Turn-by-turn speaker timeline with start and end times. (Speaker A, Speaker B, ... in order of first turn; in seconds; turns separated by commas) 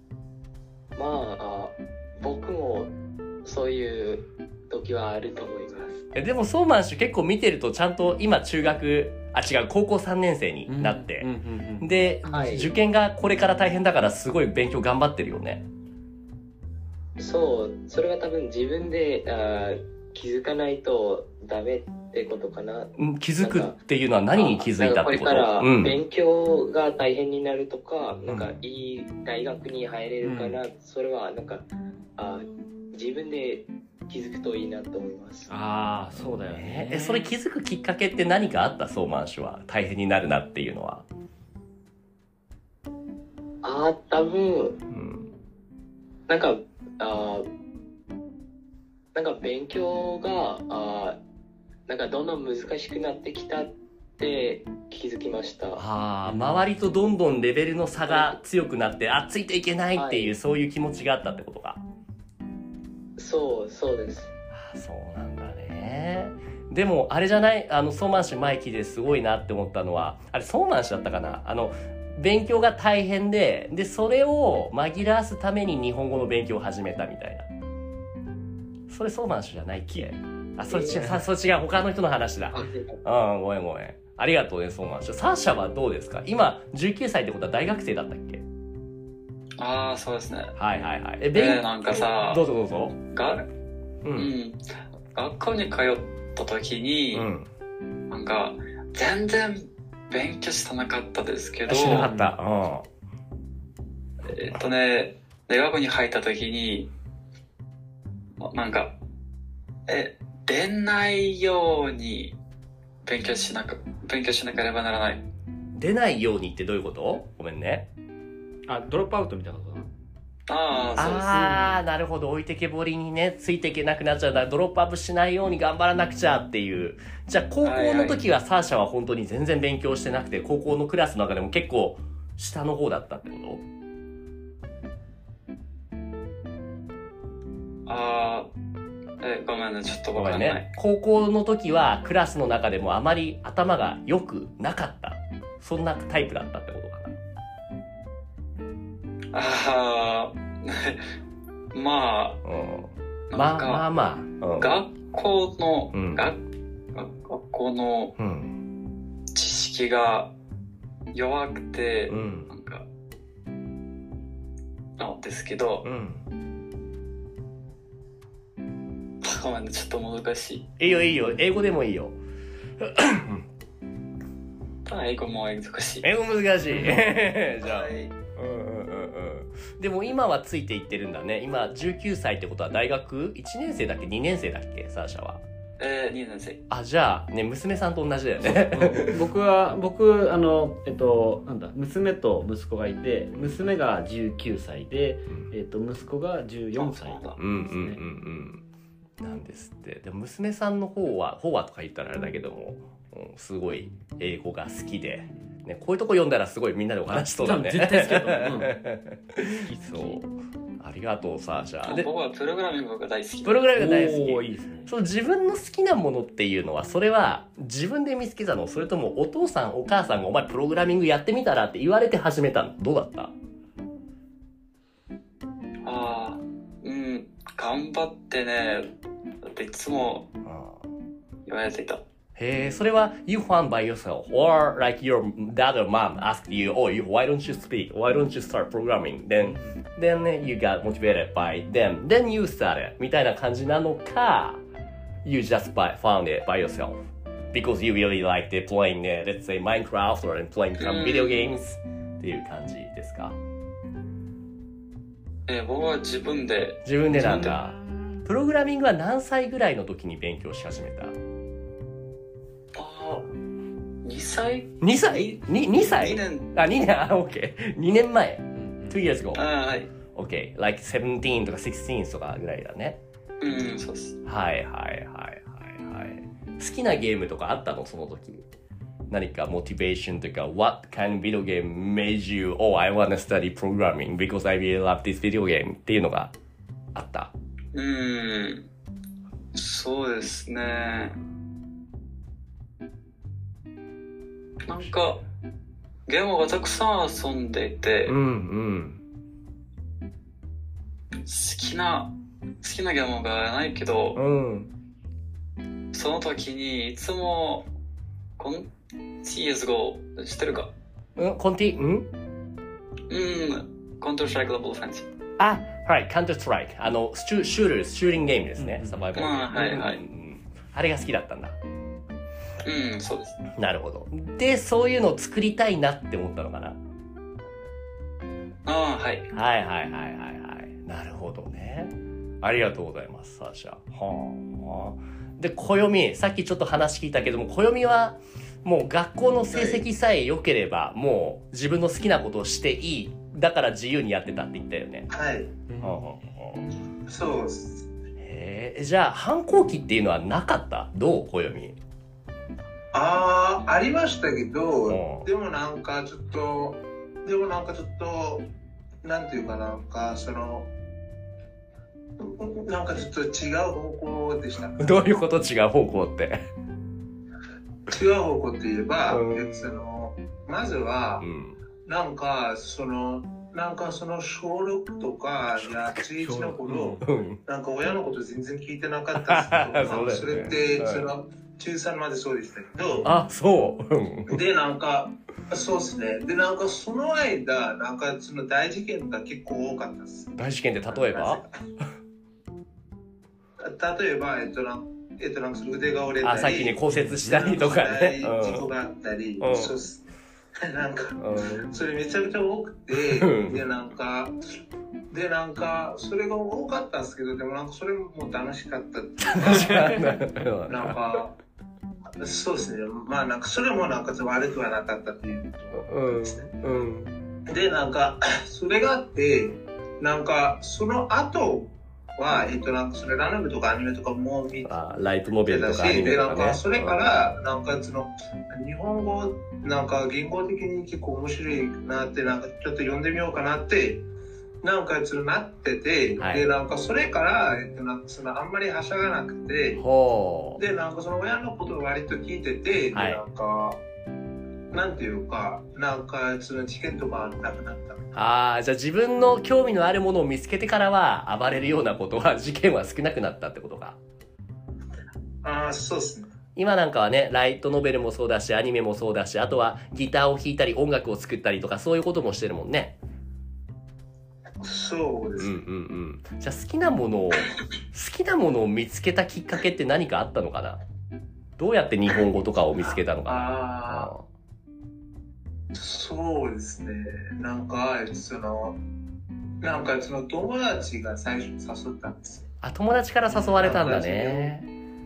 Speaker A: 1.0-2.9, Speaker A: 3.5-6.0, Speaker B: 6.1-11.3, Speaker C: 10.7-12.6, Speaker B: 11.8-15.7, Speaker A: 12.3-12.7, Speaker A: 17.2-23.7, Speaker B: 23.0-26.0, Speaker A: 24.3-31.7, Speaker B: 28.2-28.6, Speaker C: 30.2-30.6, Speaker A: 32.2-35.5, Speaker C: 35.5-37.3, Speaker B: 36.4-41.0, Speaker A: 43.6-44.8, Speaker B: 44.9-45.3, Speaker A: 46.3-47.5, Speaker A: 49.1-51.2, Speaker A: 51.9-55.8, Speaker B: 55.8-61.8, Speaker A: 58.1-58.4, Speaker A: 60.0-60.4, Speaker A: 63.2-64.3, Speaker B: 64.5-77.5, Speaker B: 78.9-88.4, Speaker C: 80.9-81.2, Speaker A: 82.6-83.0, Speaker D: 89.6-90.5, Speaker B: 90.6-93.0, Speaker D: 91.3-92.4, Speaker D: 93.1-93.5, Speaker B: 94.0-94.3, Speaker D: 94.1-94.6, Speaker D: 95.1-97.3, Speaker B: 97.1-97.5, Speaker D: 98.1-102.1, Speaker B: 101.7-102.9, Speaker C: 101.8-102.3, Speaker D: 104.3-106.9, Speaker D: 108.4-108.9, Speaker D: 109.9-112.4, Speaker D: 113.0-115.2, Speaker B: 115.8-117.9, Speaker C: 118.7-119.9, Speaker D: 120.5-121.6, Speaker B: 121.0-133.6, Speaker C: 121.3-121.7, Speaker D: 127.6-128.2, Speaker D: 137.9-138.5, Speaker D: 139.2-140.7, Speaker B: 140.2-147.2, Speaker D: 149.3-151.0, Speaker D: 151.7-152.4, Speaker B: 152.4-154.8, Speaker D: 153.3-153.8, Speaker D: 154.6-156.4, Speaker B: 155.9-156.2, Speaker D: 156.9-158.1, Speaker B: 158.2-158.6, Speaker D: 159.3-160.3, Speaker D: 161.1-162.8, Speaker B: 162.1-162.5, Speaker D: 165.0-165.9, Speaker B: 165.8-166.2, Speaker D: 169.2-170.7, Speaker B: 170.8-172.2, Speaker B: 172.8-173.4, Speaker D: 174.9-176.1, Speaker B: 176.0-185.4, Speaker D: 185.8-186.6, Speaker B: 186.7-189.2, Speaker C: 188.4-198.0, Speaker D: 196.8-197.4, Speaker B: 197.4-198.6, Speaker B: 199.2-210.3, Speaker C: 207.1-208.8, Speaker C: 209.4-210.2, Speaker B: 210.8-212.1, Speaker D: 211.8-213.7, Speaker B: 213.4-223.3, Speaker C: 213.8-214.9, Speaker D: 225.8-228.9, Speaker D: 229.4-230.3, Speaker B: 230.4-230.8, Speaker D: 231.5-232.0, Speaker B: 232.4-244.6, Speaker C: 239.4-239.8, Speaker B: 245.2-253.4, Speaker D: 250.8-251.5, Speaker D: 255.5-257.6, Speaker B: 256.8-261.1, Speaker C: 257.4-258.2, Speaker D: 262.7-263.3, Speaker D: 264.0-266.5, Speaker B: 264.8-269.4, Speaker C: 268.6-269.0, Speaker D: 269.3-269.9, Speaker B: 270.1-273.0, Speaker D: 273.4-274.2, Speaker B: 274.2-278.5, Speaker B: 279.1-286.3, Speaker B: 286.9-287.3, Speaker D: 287.7-288.7, Speaker D: 289.5-291.2, Speaker D: 294.7-295.2, Speaker D: 296.1-298.1, Speaker B: 298.1-299.0, Speaker D: 301.3-302.1, Speaker D: 302.6-304.2, Speaker B: 304.1-304.7, Speaker D: 305.9-307.7, Speaker D: 308.4-308.7, Speaker D: 309.2-310.7, Speaker B: 311.2-312.1, Speaker D: 313.1-315.1, Speaker B: 315.4-321.6, Speaker C: 318.6-319.1, Speaker D: 319.1-320.0, Speaker D: 322.6-323.4, Speaker B: 323.6-326.8, Speaker D: 328.7-329.3, Speaker B: 329.3-345.1, Speaker E: 339.5-339.8, Speaker E: 345.1-345.6, Speaker C: 345.7-346.0, Speaker B: 345.8-346.6, Speaker E: 347.1-347.9, Speaker B: 348.2-351.8, Speaker E: 352.9-358.5, Speaker B: 354.9-355.3, Speaker E: 359.0-360.7, Speaker E: 362.2-365.2, Speaker B: 364.8-366.4, Speaker E: 367.9-371.3, Speaker B: 369.1-369.8, Speaker B: 371.2-371.6, Speaker E: 371.8-383.1, Speaker B: 375.6-377.4, Speaker C: 376.6-377.1, Speaker B: 379.2-381.1, Speaker B: 383.0-384.4, Speaker E: 384.3-391.5, Speaker B: 390.4-391.4, Speaker E: 393.6-400.1, Speaker B: 396.2-398.7, Speaker C: 396.9-397.5, Speaker B: 399.4-399.8, Speaker E: 400.6-404.4, Speaker B: 401.2-401.7, Speaker B: 403.0-403.6, Speaker E: 405.1-410.0, Speaker B: 409.3-411.0, Speaker E: 410.7-411.3, Speaker E: 412.2-416.9, Speaker B: 415.7-417.1, Speaker E: 417.5-424.8, Speaker B: 424.6-427.1, Speaker E: 425.5-434.0, Speaker E: 434.6-439.8, Speaker B: 436.2-436.5, Speaker B: 439.8-440.6, Speaker E: 440.6-443.8, Speaker B: 442.9-443.2, Speaker E: 444.7-448.1, Speaker B: 448.1-454.0, Speaker E: 455.4-456.3, Speaker B: 456.6-462.9, Speaker E: 464.6-465.6, Speaker B: 465.4-470.8, Speaker B: 471.6-474.3, Speaker E: 473.3-474.1, Speaker E: 475.7-478.8, Speaker E: 479.6-482.5, Speaker B: 482.6-484.7, Speaker E: 483.3-484.5